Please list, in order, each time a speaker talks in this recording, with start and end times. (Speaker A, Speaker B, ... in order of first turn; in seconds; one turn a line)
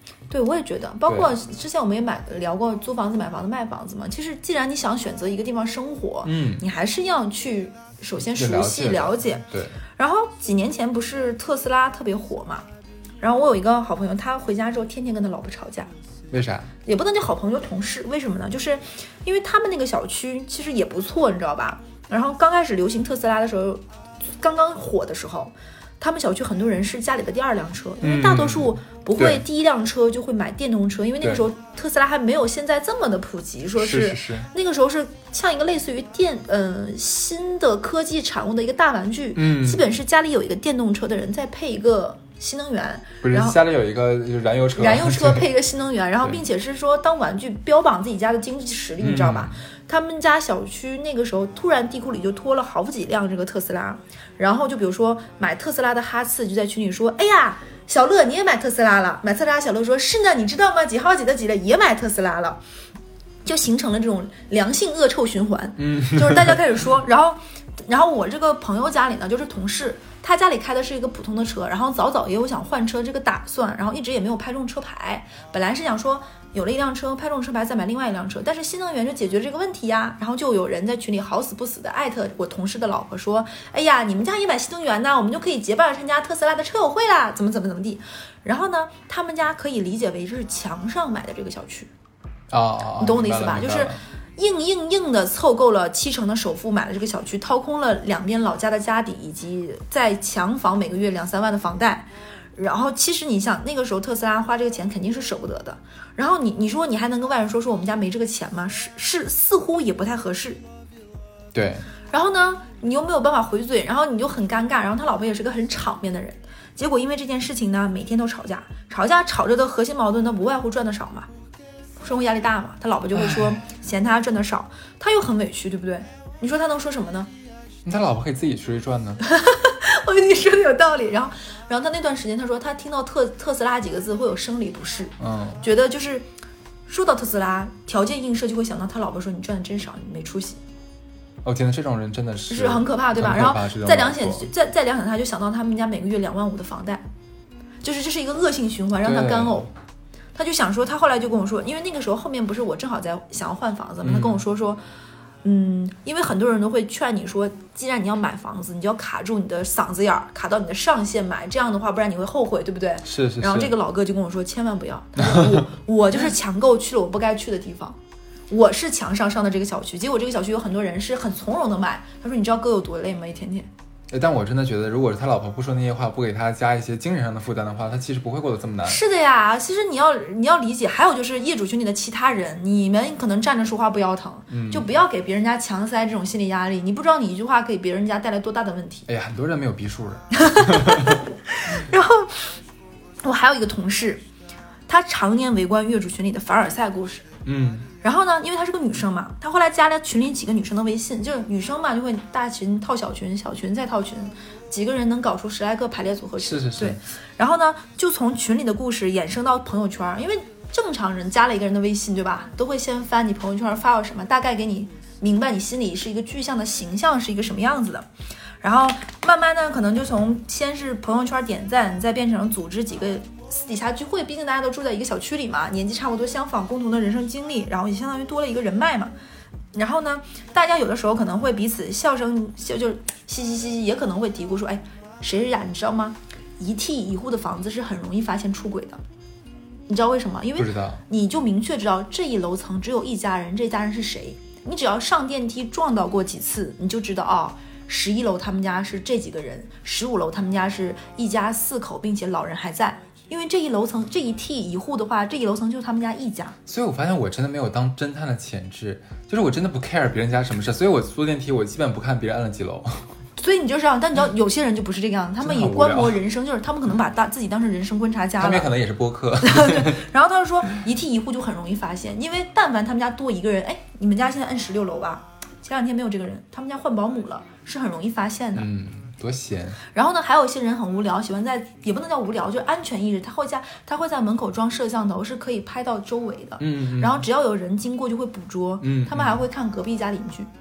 Speaker A: 0.3-12.6
Speaker B: 1.1-1.3
Speaker B: 6.2-6.6
Speaker B: 8.3-9.8
Speaker A: 13.2-15.9
Speaker B: 16.3-16.7
Speaker A: 16.8-43.6
Speaker B: 28.0-29.4
Speaker B: 33.8-34.5
Speaker B: 39.3-39.8
Speaker B: 43.2-45.5
Speaker A: 44.8-62.6
Speaker B: 49.0-49.5
Speaker A: 63.4-91.9
Speaker B: 65.8-66.6
Speaker B: 92.5-94.0
Speaker A: 93.0-110.6
Speaker B: 111.5-111.8
Speaker A: 112.1-121.3
Speaker A: 122.0-127.3
Speaker B: 123.2-123.5
Speaker B: 127.8-129.2
Speaker A: 129.2-136.3
Speaker B: 135.2-135.6
Speaker A: 136.9-140.6
Speaker B: 141.4-144.5
Speaker A: 142.5-147.0
Speaker A: 147.8-149.7
Speaker B: 149.0-149.7
Speaker A: 150.3-154.8
Speaker B: 154.0-154.4
Speaker A: 155.4-168.0
Speaker B: 163.0-163.7
Speaker B: 165.2-165.6
Speaker A: 168.5-173.7
Speaker B: 174.1-179.0
Speaker A: 178.8-189.1
Speaker B: 184.5-184.9
Speaker B: 189.1-191.2
Speaker A: 190.3-192.6
Speaker A: 193.2-194.2
Speaker A: 194.9-197.3
Speaker B: 197.4-197.9
Speaker A: 198.0-218.1
Speaker B: 206.4-207.0
Speaker A: 218.6-229.1
Speaker A: 229.7-239.0
Speaker A: 239.9-256.6
Speaker B: 240.6-241.0
Speaker B: 256.7-263.0
Speaker A: 263.4-268.7
Speaker B: 265.4-266.2
Speaker B: 268.4-270.0
Speaker A: 269.4-278.7
Speaker B: 278.5-279.8
Speaker A: 279.9-290.5
Speaker B: 286.6-287.2
Speaker B: 288.8-289.4